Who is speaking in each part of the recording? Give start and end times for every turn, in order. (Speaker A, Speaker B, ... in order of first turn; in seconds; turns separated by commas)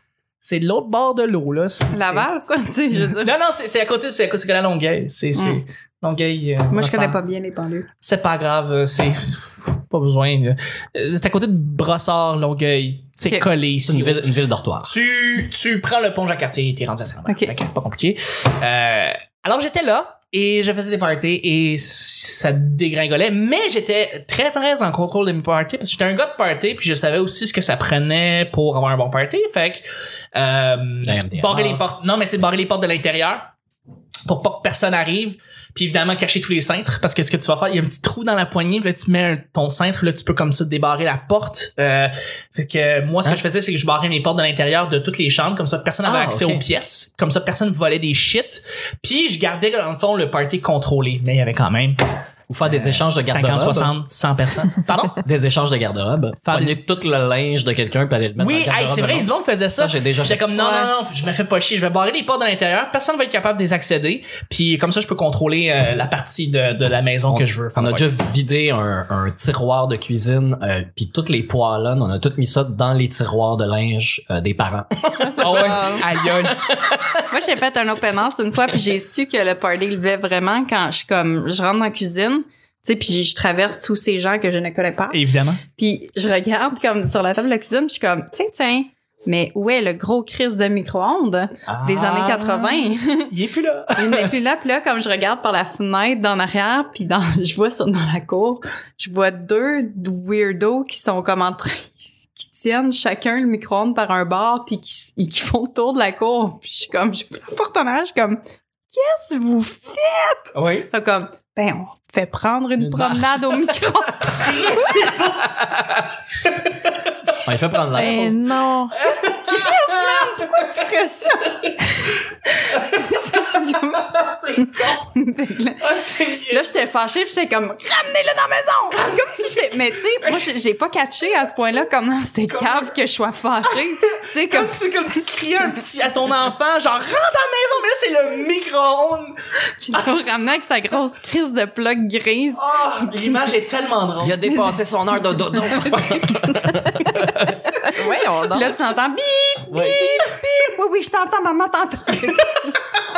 Speaker A: 0.4-2.3, Speaker B: 1.9-3.3, Speaker A: 2.9-7.2, Speaker B: 6.7-7.9, Speaker A: 8.0-14.3, Speaker C: 13.8-14.9, Speaker A: 14.8-33.5, Speaker B: 17.3-17.5, Speaker C: 31.0-31.8, Speaker A: 34.2-52.0, Speaker C: 46.0-46.6, Speaker C: 52.5-53.9, Speaker A: 52.6-55.2, Speaker C: 55.2-60.5, Speaker A: 56.5-56.8, Speaker A: 58.4-68.1, Speaker C: 67.3-77.2, Speaker B: 75.2-76.0, Speaker A: 75.4-76.6, Speaker B: 77.3-85.2, Speaker A: 85.1-85.6, Speaker B: 85.8-93.3, Speaker A: 91.7-94.3, Speaker B: 93.9-115.0, Speaker A: 110.5-110.9, Speaker C: 112.8-113.3, Speaker A: 114.4-115.5, Speaker C: 117.4-118.5, Speaker D: 117.9-119.0, Speaker B: 119.0-125.9, Speaker A: 119.3-120.3, Speaker A: 123.0-125.0, Speaker A: 125.8-126.6, Speaker B: 126.5-134.8, Speaker A: 129.0-129.5, Speaker A: 132.5-132.9, Speaker A: 133.7-139.4, Speaker B: 139.8-143.2, Speaker A: 142.6-144.6, Speaker C: 144.2-147.5, Speaker B: 144.5-144.8, Speaker B: 145.3-146.7, Speaker D: 147.8-148.7, Speaker B: 148.4-152.8, Speaker C: 149.7-150.3